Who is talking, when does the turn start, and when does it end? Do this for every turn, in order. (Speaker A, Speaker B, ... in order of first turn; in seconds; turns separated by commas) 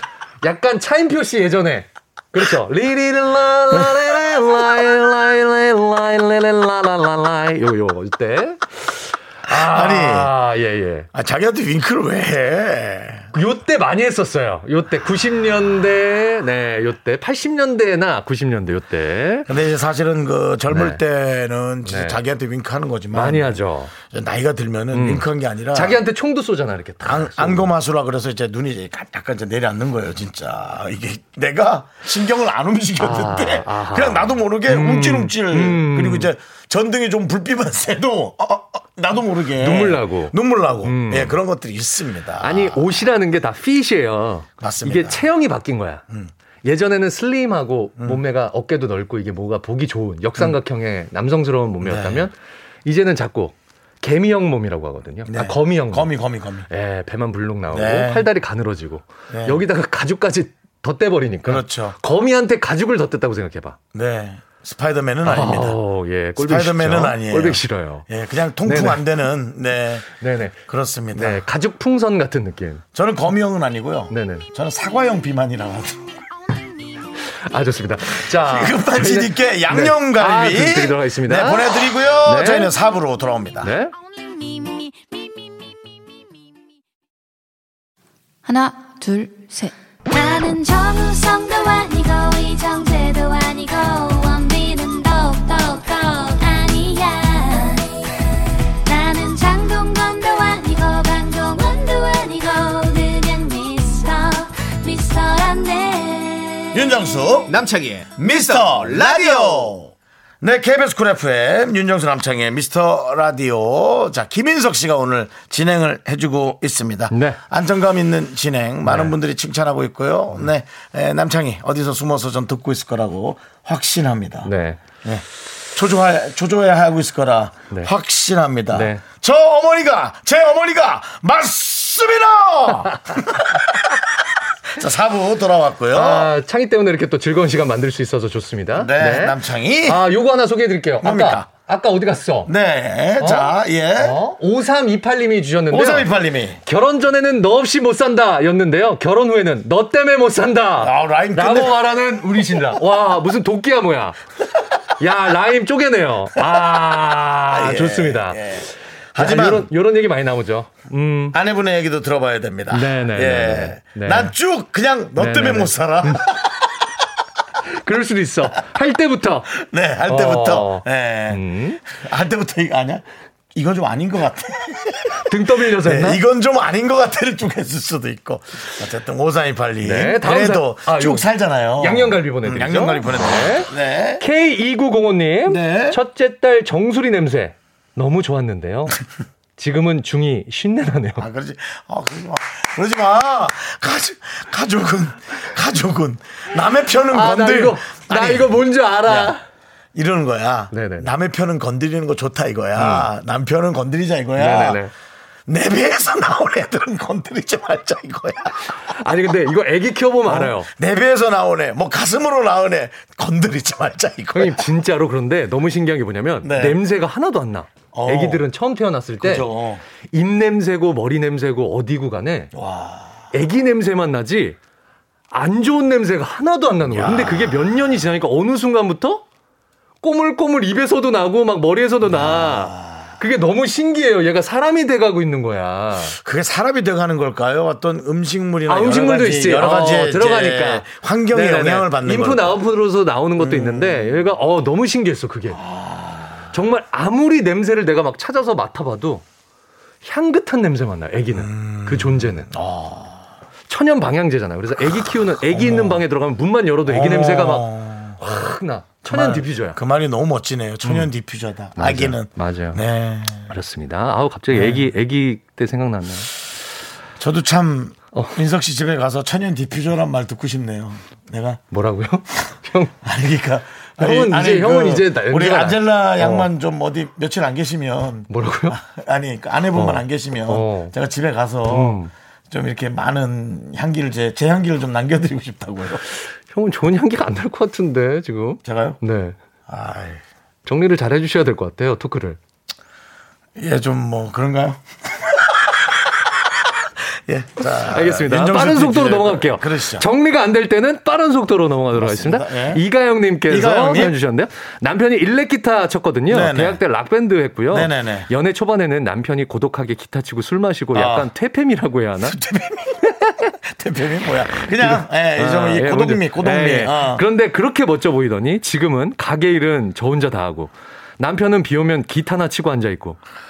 Speaker A: 0.4-11.1, Speaker B: 3.7-4.0, Speaker B: 9.5-10.3, Speaker B: 11.1-13.3, Speaker A: 13.3-19.5, Speaker B: 19.5-26.0, Speaker A: 20.7-21.0, Speaker A: 21.9-22.2, Speaker A: 23.1-23.9, Speaker A: 24.9-27.7, Speaker B: 27.0-42.9, Speaker A: 33.0-36.3, Speaker A: 39.6-41.4, Speaker A: 42.4-46.0, Speaker B: 44.6-45.3, Speaker A: 46.6-56.1, Speaker B: 51.8-52.3, Speaker B: 55.3-56.7, Speaker A: 56.7-63.8, Speaker B: 57.7-58.3, Speaker B: 59.3-59.6, Speaker B: 61.5-62.0, Speaker B: 63.9-65.8, Speaker A: 65.2-68.0, Speaker B: 66.4-70.1, Speaker A: 68.6-69.0, Speaker A: 70.2-70.6, Speaker B: 70.7-71.4, Speaker A: 71.1-72.8, Speaker B: 72.9-76.2, Speaker A: 74.1-74.5, Speaker C: 76.4-77.0, Speaker A: 77.2-82.7, Speaker B: 78.2-83.7, Speaker A: 83.6-83.9, Speaker C: 84.0-86.5, Speaker C: 88.5-89.7, Speaker D: 90.1-98.0, Speaker D: 98.8-106.9, Speaker B: 106.7-107.6, Speaker E: 107.5-109.7, Speaker B: 108.2-124.5, Speaker A: 117.1-117.4, Speaker A: 118.8-119.1, Speaker A: 124.4-124.8, Speaker B: 125.0-136.3, Speaker A: 128.7-129.0, Speaker A: 135.9-142.5, Speaker B: 138.7-140.0, Speaker B: 141.0-141.5, Speaker B: 142.4-144.2, Speaker A: 143.2-146.1, Speaker B: 145.7-146.6, Speaker A: 146.6-154.2, Speaker B: 150.8-151.8, Speaker A: 154.9-161.3, Speaker B: 157.5-159.7, Speaker B: 161.3-166.6, Speaker A: 162.7-164.3, Speaker A: 165.2-166.3, Speaker A: 167.7-169.5, Speaker B: 169.5-184.2, Speaker A: 170.1-171.8, Speaker A: 175.2-176.2, Speaker A: 179.8-181.3, Speaker A: 181.8-189.0, Speaker B: 185.4-186.0, Speaker A: 189.6-191.2, Speaker B: 191.2-199.3, Speaker A: 197.1-199.4, Speaker B: 199.9-204.8, Speaker A: 200.7-201.1, Speaker A: 202.8-203.1, Speaker A: 204.4-204.9, Speaker B: 205.5-208.7, Speaker A: 208.8-210.7, Speaker B: 210.2-214.7, Speaker A: 214.3-219.5, Speaker B: 216.4-216.8, Speaker B: 217.9-218.4, Speaker B: 219.2-219.8, Speaker A: 220.1-222.5, Speaker B: 222.5-223.2, Speaker A: 223.3-224.6, Speaker A: 225.3-229.2, Speaker B: 226.8-227.9, Speaker A: 230.0-236.2, Speaker B: 232.1-233.1, Speaker B: 236.1-242.6, Speaker A: 238.7-245.7, Speaker B: 243.4-244.2, Speaker B: 245.6-246.4, Speaker A: 246.5-249.2, Speaker A: 250.0-252.5, Speaker B: 251.3-253.2, Speaker A: 253.7-259.8, Speaker B: 255.5-256.0, Speaker B: 256.9-263.5, Speaker A: 260.8-261.1, Speaker A: 261.8-262.8, Speaker A: 263.5-266.3, Speaker B: 264.5-264.9, Speaker B: 267.2-271.6, Speaker A: 271.7-272.9, Speaker B: 273.0-286.0, Speaker A: 274.0-276.5, Speaker A: 278.3-278.8, Speaker A: 279.7-280.9, Speaker A: 281.7-282.1, Speaker A: 286.5-289.4, Speaker B: 288.6-289.0, Speaker B: 289.7-290.2, Speaker A: 290.6-292.4, Speaker B: 293.6-300.1, Speaker A: 297.9-312.4, Speaker B: 301.9-302.8, Speaker B: 303.5-304.2, Speaker B: 306.3-306.8, Speaker B: 307.7-308.3, Speaker B: 310.9-311.3, Speaker B: 312.2-317.2, Speaker A: 313.2-313.5, Speaker A: 314.6-323.2